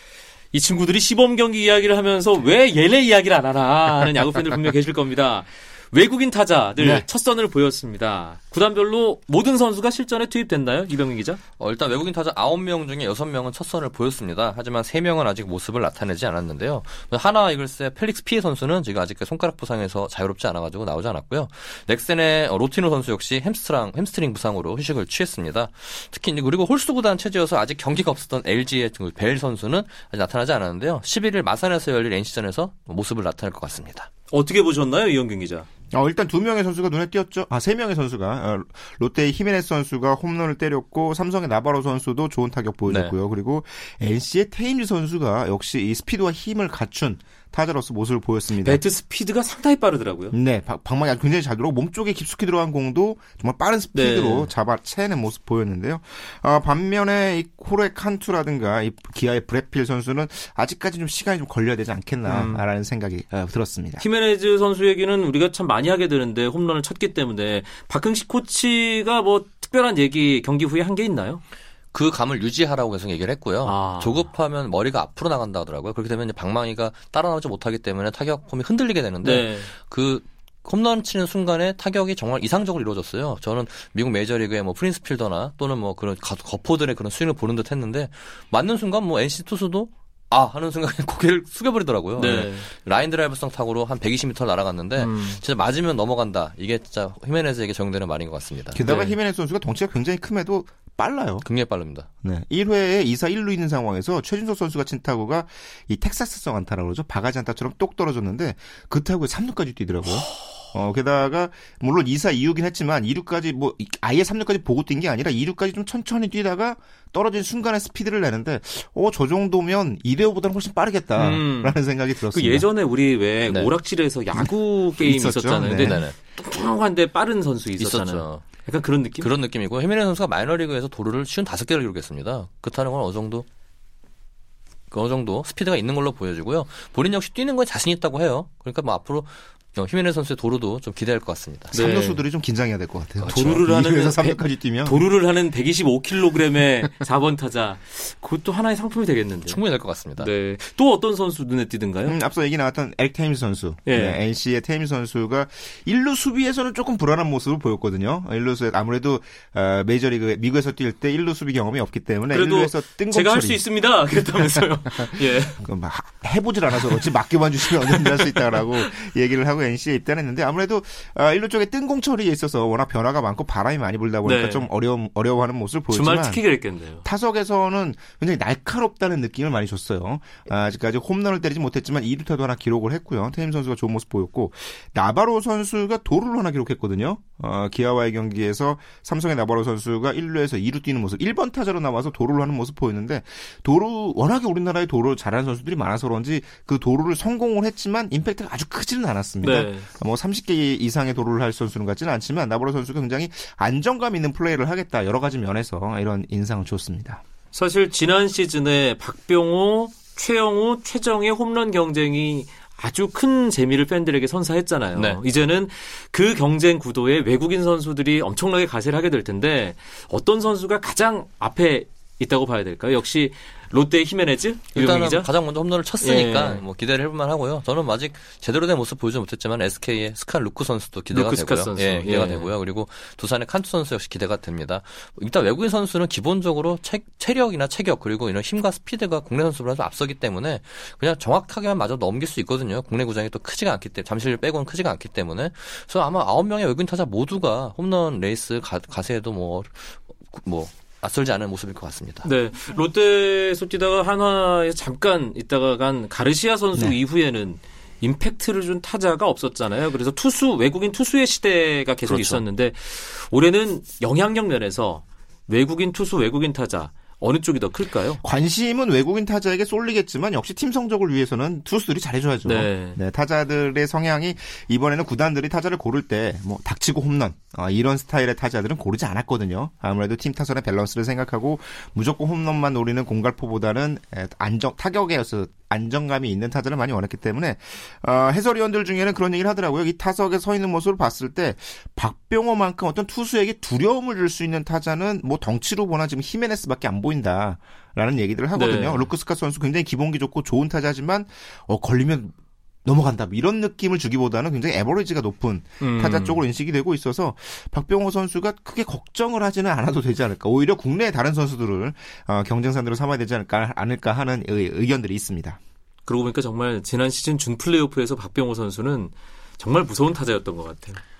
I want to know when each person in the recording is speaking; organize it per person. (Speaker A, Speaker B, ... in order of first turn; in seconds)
Speaker A: 0.5-11.4, 34.3-35.7, 48.6-50.4, 54.0-54.5, 62.2-62.6, 64.0-71.4, 73.6-74.3, 79.2-79.7, 92.2-92.7, 95.0-95.4, 98.8-99.1, 121.1-129.3, 141.7-142.2, 143.2-149.6, 150.2-152.2, 153.9-154.2, 162.3-165.6, 167.9-168.3, 174.2-174.7, 175.9-177.1, 199.4-199.9, 207.5-225.3, 226.0-226.6, 231.1-232.5, 252.2-268.2, 272.4-273.0, 298.6-299.1, 305.8-306.4, 316.1-321.0
Speaker B: 6.8-7.0, 35.9-48.8, 50.3-64.0, 98.7-101.5, 102.2-122.7, 125.0-126.0, 141.7-145.0, 152.1-163.6, 165.0-176.4, 177.0-207.2, 268.2-315.6
Speaker C: 11.6-34.1, 42.9-43.1, 71.9-98.8, 101.5-102.1, 123.5-123.7, 125.8-126.2, 127.8-128.5, 129.2-133.5, 134.9-141.7, 149.5-150.3, 214.9-215.2, 224.7-252.3, 262.1-262.4